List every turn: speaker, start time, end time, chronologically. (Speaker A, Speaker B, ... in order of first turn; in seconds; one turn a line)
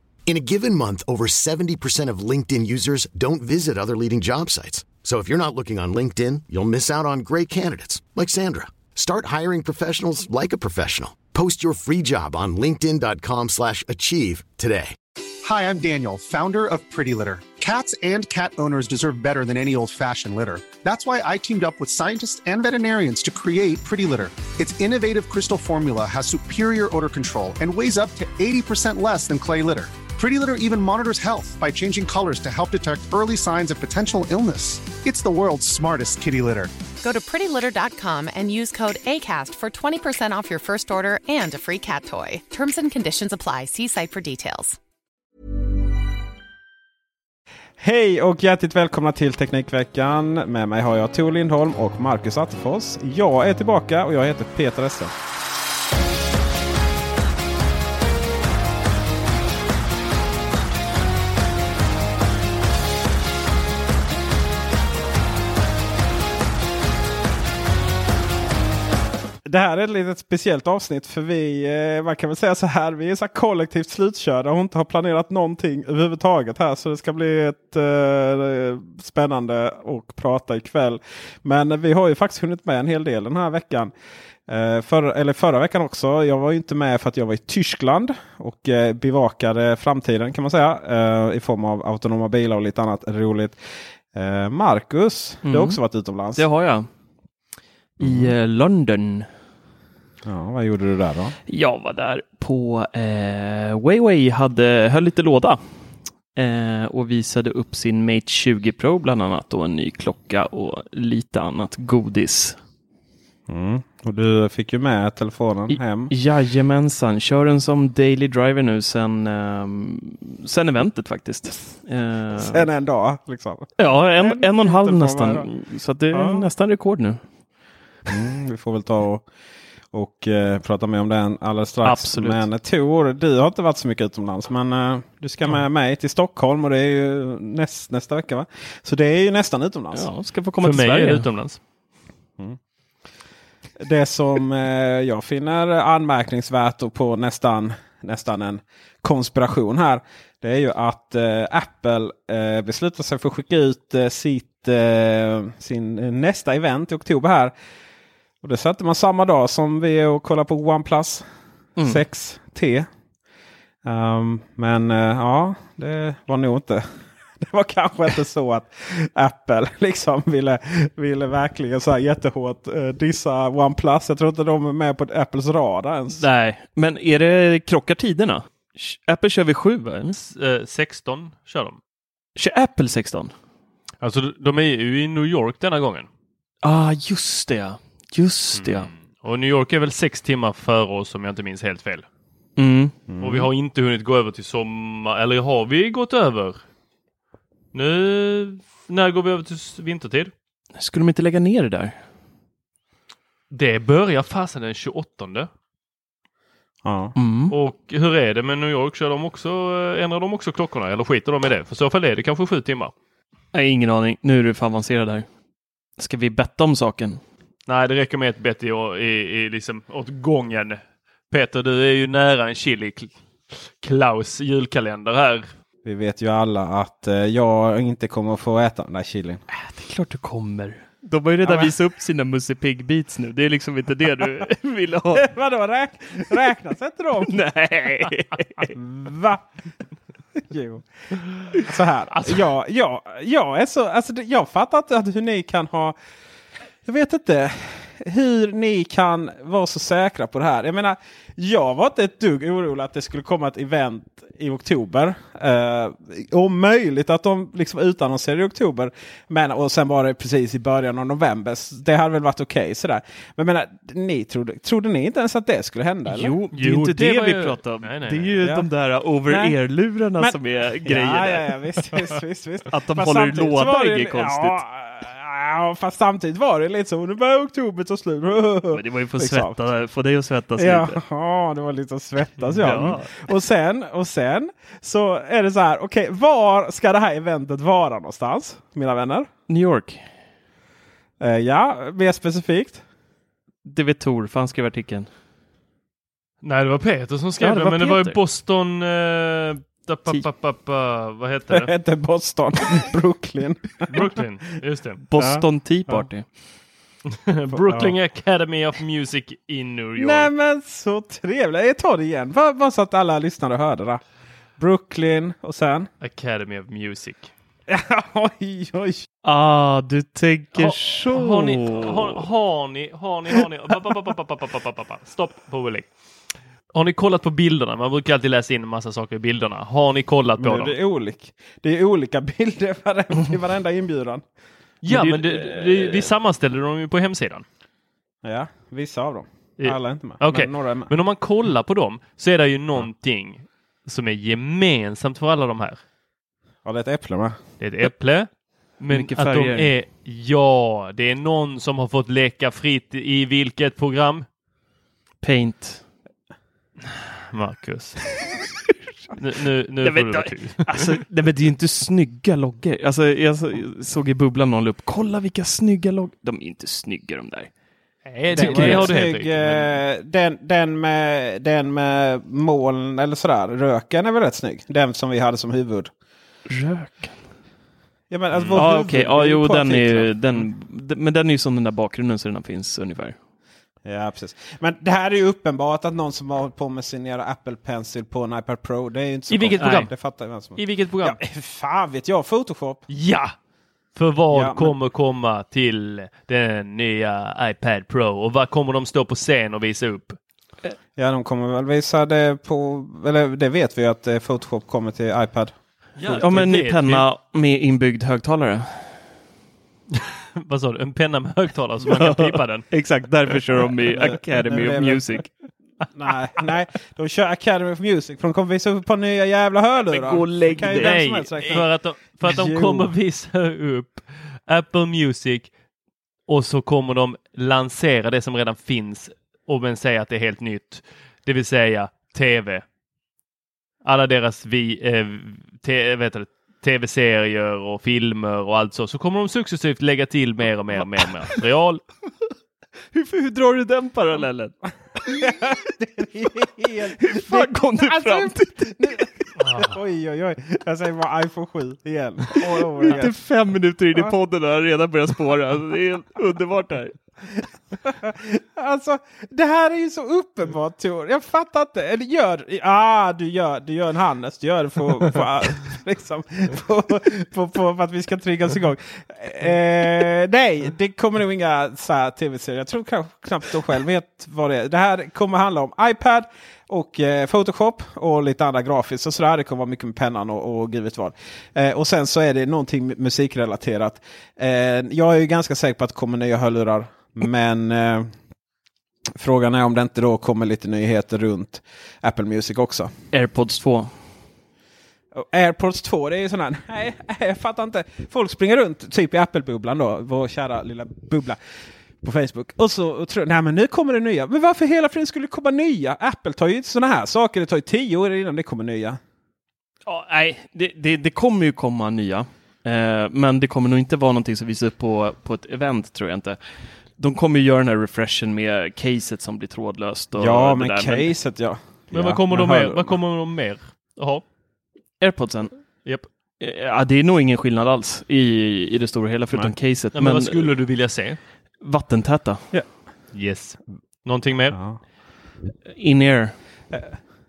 Speaker A: 0.3-14.9
Speaker B: 15.4-36.7
Speaker C: 37.0-44.8
Speaker D: 47.8-55.1
Speaker D: 69.4-83.9
Speaker D: 84.5-96.5
Speaker E: 95.4-95.8
Speaker E: 96.3-96.9
Speaker E: 98.0-99.3
Speaker D: 98.0-98.3
Speaker D: 100.2-101.3
Speaker E: 101.5-105.6
Speaker E: 106.3-112.6
Speaker D: 113.5-116.1
Speaker E: 115.7-122.7
Speaker D: 122.3-125.5
Speaker E: 123.8-127.2
Speaker D: 126.1-126.5
Speaker D: 128.1-129.3
Speaker D: 129.9-140.1
Speaker E: 131.8-132.4
Speaker E: 139.9-141.2
Speaker F: 140.6-141.6
Speaker D: 143.8-157.5
Speaker D: 158.4-161.2
Speaker E: 161.8-162.0
Speaker D: 161.8-162.9
Speaker D: 163.8-176.3
Speaker E: 176.1-180.2
Speaker F: 180.1-181.8
Speaker E: 182.3-183.3
Speaker F: 184.0-186.1
Speaker E: 186.6-188.9
Speaker F: 188.6-192.1
Speaker E: 192.6-192.9
Speaker D: 193.1-193.5
Speaker F: 193.2-196.6
Speaker F: 197.7-200.3
Speaker E: 200.8-202.0
Speaker F: 203.5-205.5
Speaker D: 206.8-207.1
Speaker E: 207.2-207.5
Speaker F: 207.5-212.9
Speaker E: 213.5-215.3
Speaker E: 216.0-217.2
Speaker F: 217.7-225.5
Speaker D: 225.8-229.4
Speaker E: 229.5-235.3
Speaker D: 231.4-231.7
Speaker D: 235.2-237.4
Speaker E: 237.3-238.7
Speaker D: 238.7-239.4
Speaker D: 240.4-240.9
Speaker D: 241.5-246.0
Speaker F: 242.1-242.4
Speaker D: 246.8-266.3
Speaker E: 266.1-272.0
Speaker F: 266.5-268.3
Speaker D: 268.4-268.7
Speaker D: 269.3-269.5
Speaker D: 270.2-279.6
Speaker E: 272.7-274.6
Speaker E: 278.7-281.0
Speaker D: 280.6-289.3
Speaker E: 282.6-283.1
Speaker E: 289.5-290.1
Speaker D: 291.2-292.8
Speaker E: 293.6-295.1
Speaker F: 296.4-301.7
Speaker E: 297.4-298.2
Speaker D: 301.5-304.0
Speaker F: 303.9-305.0
Speaker E: 305.1-306.2
Speaker D: 305.2-306.1
Speaker F: 307.3-310.3
Speaker D: 307.5-307.9
Speaker D: 310.0-314.0
Speaker D: 314.6-315.9
Speaker F: 316.0-317.3
Speaker D: 317.7-319.1
Speaker E: 319.2-322.2
Speaker F: 320.5-325.9
Speaker F: 326.7-330.8
Speaker D: 330.4-334.2
Speaker F: 334.8-337.4
Speaker E: 334.9-336.1
Speaker D: 338.2-340.9
Speaker F: 339.6-345.8
Speaker D: 346.6-347.4
Speaker F: 347.6-354.2
Speaker E: 348.9-349.7
Speaker E: 355.2-355.8
Speaker F: 357.3-358.1
Speaker F: 359.2-361.0
Speaker E: 359.8-367.5
Speaker F: 368.1-369.8
Speaker D: 368.3-375.9
Speaker E: 368.3-368.9
Speaker E: 376.5-377.2
Speaker D: 378.1-380.1
Speaker E: 378.5-383.1
Speaker D: 383.8-392.9
Speaker F: 389.3-389.9
Speaker F: 390.5-391.2
Speaker F: 392.9-393.3
Speaker F: 393.9-400.2
Speaker D: 394.3-394.8
Speaker D: 400.9-405.5
Speaker F: 406.0-407.1
Speaker E: 406.0-409.0
Speaker F: 410.0-412.7
Speaker E: 411.9-415.3
Speaker D: 413.9-415.1
Speaker D: 415.9-421.7
Speaker E: 419.9-421.6
Speaker F: 420.6-425.5
Speaker D: 422.2-422.9
Speaker F: 426.3-432.6
Speaker F: 433.8-441.8
Speaker E: 442.9-445.5
Speaker D: 445.1-453.1
Speaker E: 447.0-449.3
Speaker F: 449.4-449.7
Speaker E: 452.8-456.9
Speaker D: 457.8-488.1
Speaker D: 489.1-492.9
Speaker E: 493.1-493.9
Speaker D: 495.1-501.4
Speaker D: 502.0-509.0
Speaker E: 509.9-521.1
Speaker D: 520.1-523.0
Speaker F: 521.9-524.2
Speaker E: 525.0-525.5
Speaker E: 526.4-530.5
Speaker F: 529.9-531.2
Speaker E: 531.6-532.4
Speaker F: 533.1-534.6
Speaker D: 534.5-534.8
Speaker E: 535.7-536.4